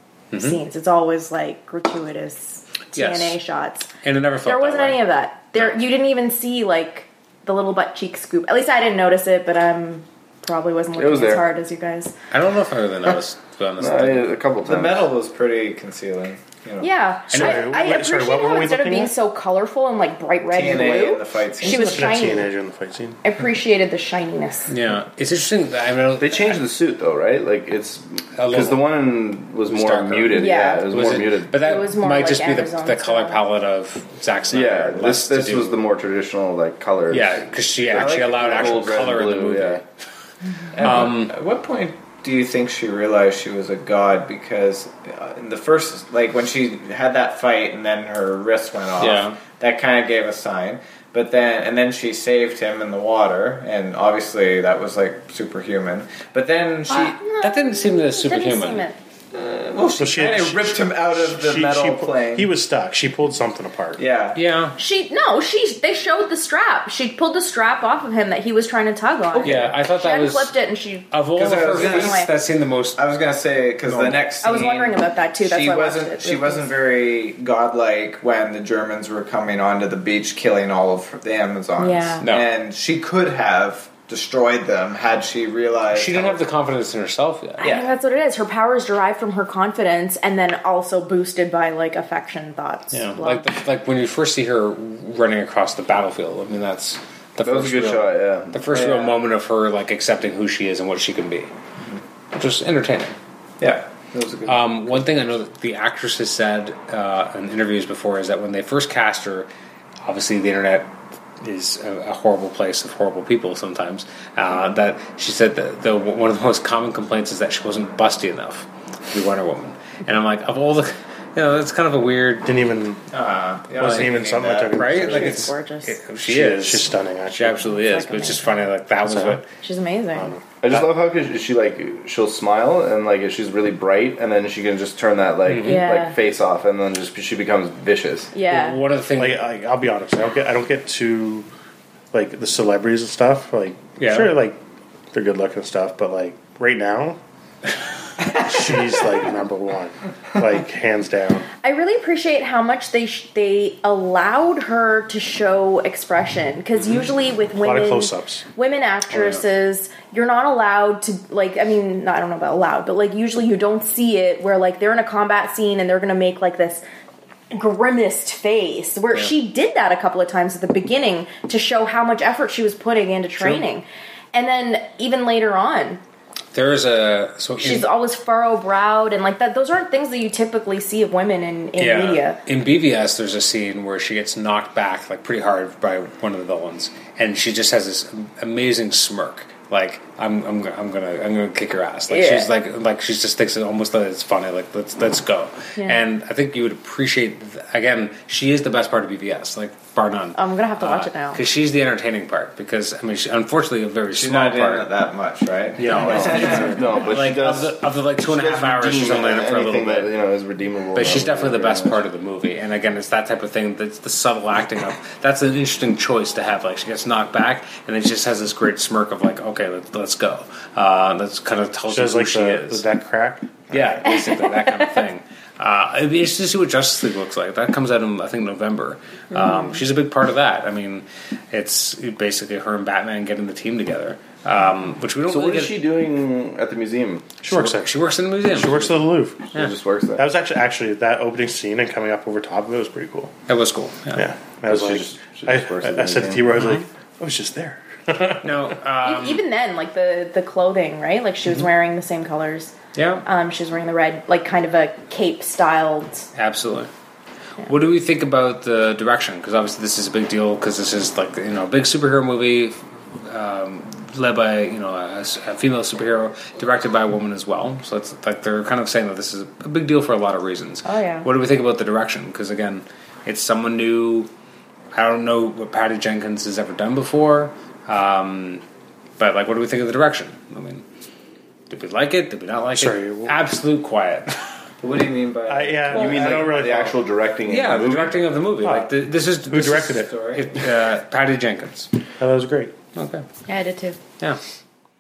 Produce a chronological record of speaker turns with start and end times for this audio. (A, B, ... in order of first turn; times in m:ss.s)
0:00.3-0:03.9 A
0:02.9-0:03.4 B
0:04.0-0:05.0 B
0:04.4-0:12.1 A
0:11.0-0:11.5 C
0:12.3-0:14.3 B
0:13.8-0:15.1 C
0:14.6-0:16.9 D
0:16.8-0:22.5 A
0:17.3-0:17.7 B
0:17.3-0:19.2 E
0:20.5-0:22.2 D
0:21.6-0:23.2 E
0:23.2-0:24.7 A
0:24.7-0:26.6 B
0:26.2-0:31.5 C
0:28.4-0:28.9 B
0:29.7-0:35.8 B
0:30.3-0:30.9 A
0:31.5-0:33.4 A
0:34.5-0:39.8 C
0:37.1-0:39.8 B
0:40.7-0:57.2 D
0:40.8-0:41.3 B
0:49.0-0:49.4 B
0:56.9-0:59.0 A
0:57.4-0:58.9 B
0:59.3-1:02.5 D
1:00.0-1:04.0 E
1:04.0-1:04.4 D
1:04.4-1:04.8 B
1:04.8-1:12.3 A
1:09.4-1:10.5 B
1:11.1-1:13.0 B
1:11.4-1:12.2 D
1:13.0-1:26.4 D
1:13.9-1:14.2 B
1:14.4-1:16.7 A
1:21.8-1:22.3 A
1:22.2-1:22.5 B
1:25.9-1:27.7 B
1:27.6-1:33.5 A
1:27.6-1:27.9 D
1:32.9-1:41.5 B
1:37.4-1:38.6 C
1:38.7-1:39.1 D
1:42.3-1:43.2 B
1:43.6-1:45.0 D
1:44.4-1:49.5 B
1:50.0-2:02.5 B
2:02.4-2:03.0 E
2:03.1-2:05.0 D
2:03.8-2:05.5 E
2:04.7-2:09.5 B
2:04.9-2:06.0 A
2:06.2-2:07.8 E
2:07.8-2:08.5 A
2:09.1-2:09.4 E
2:09.5-2:10.3 A
2:10.2-2:10.4 E
2:10.6-2:18.3 C
2:15.5-2:15.8 B
2:15.6-2:16.2 A
2:18.3-2:18.8 A
2:18.4-2:19.4 B
2:19.2-2:21.5 E
2:22.1-2:24.6 E
2:24.0-2:24.4 B
2:25.1-2:27.2 E
2:28.3-2:31.5 E
2:31.6-2:46.8 A
2:37.6-2:38.4 E
2:39.1-2:39.4 B
2:47.5-2:56.0 A
2:53.4-2:53.6 B
2:56.5-2:57.9 B
2:57.6-3:02.4 A
3:01.8-3:24.9 B
3:12.1-3:12.5 A
3:15.8-3:16.0 A
3:20.4-3:21.4 A
3:24.1-3:27.0 D
3:25.8-3:30.1 B
3:26.0-3:26.5 E
3:26.0-3:32.0 C
3:31.0-3:42.8 B
3:41.9-3:44.0 E
3:43.7-3:55.8 B
3:44.2-3:44.9 A
3:49.4-3:49.7 A
3:55.3-3:57.3 C
3:57.4-3:57.9 E
3:57.5-3:59.7 B
3:58.5-3:59.5 E
3:59.5-4:00.2 C
4:00.2-4:03.3 E
4:03.5-4:04.2 B
4:04.1-4:08.5 E
4:04.7-4:06.7 C
4:06.6-4:06.8 B
4:08.4-4:09.4 B
4:09.0-4:12.7 A
4:13.0-4:13.3 B
4:13.3-4:16.3 A
4:16.4-4:16.9 B
4:17.6-4:34.3 B
4:30.8-4:31.3 A
4:34.9-4:38.6 B
4:39.2-4:40.8 B
4:41.7-4:44.4 B
4:42.8-4:43.4 E
4:44.8-4:46.6 D
4:45.5-4:47.0 E
4:45.9-4:48.2 C
4:47.4-4:51.9 B
4:48.6-4:48.9 E
4:49.5-4:50.1 E
4:50.0-4:50.4 D
4:52.2-4:52.7 E
4:53.0-4:53.2 B
4:53.5-4:54.0 A